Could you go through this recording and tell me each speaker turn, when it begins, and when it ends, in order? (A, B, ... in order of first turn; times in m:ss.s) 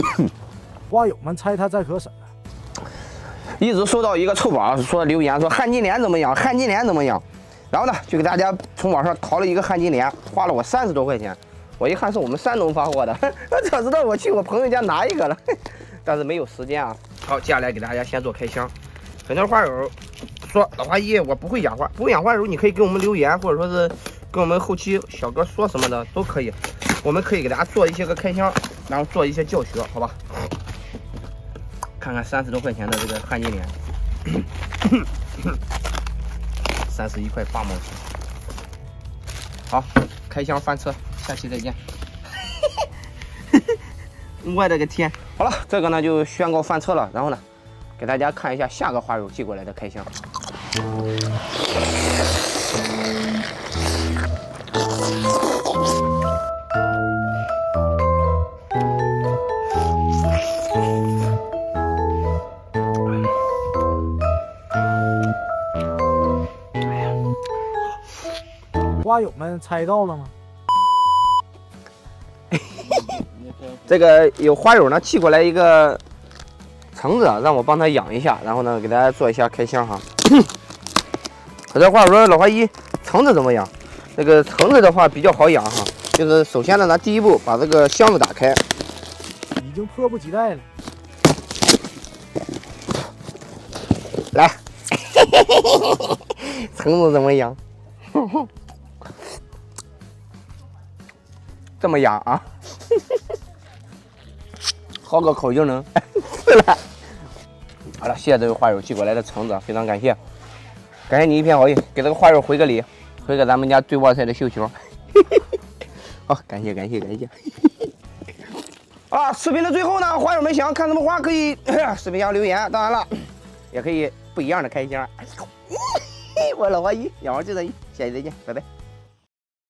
0:00.9-0:02.2 A
0:03.3-0:18.7 B
0:19.2-0:30.3 B
0:32.0-0:33.7 B
0:36.9-0:38.0 B
0:39.7-0:41.8 B
0:44.4-0:47.4 B
0:48.0-0:50.1 B
1:09.0-1:10.3 A
1:12.5-1:13.2 B
1:13.8-1:16.0 B
1:16.9-1:20.5 B
1:21.7-1:28.6 B
1:29.6-1:30.7 A
1:34.3-1:37.6 B
1:41.8-1:42.5 B
1:45.0-1:46.8 B
1:48.0-1:50.2 B
1:51.1-1:55.4 B
1:56.3-1:57.9 B
1:59.1-2:08.6 B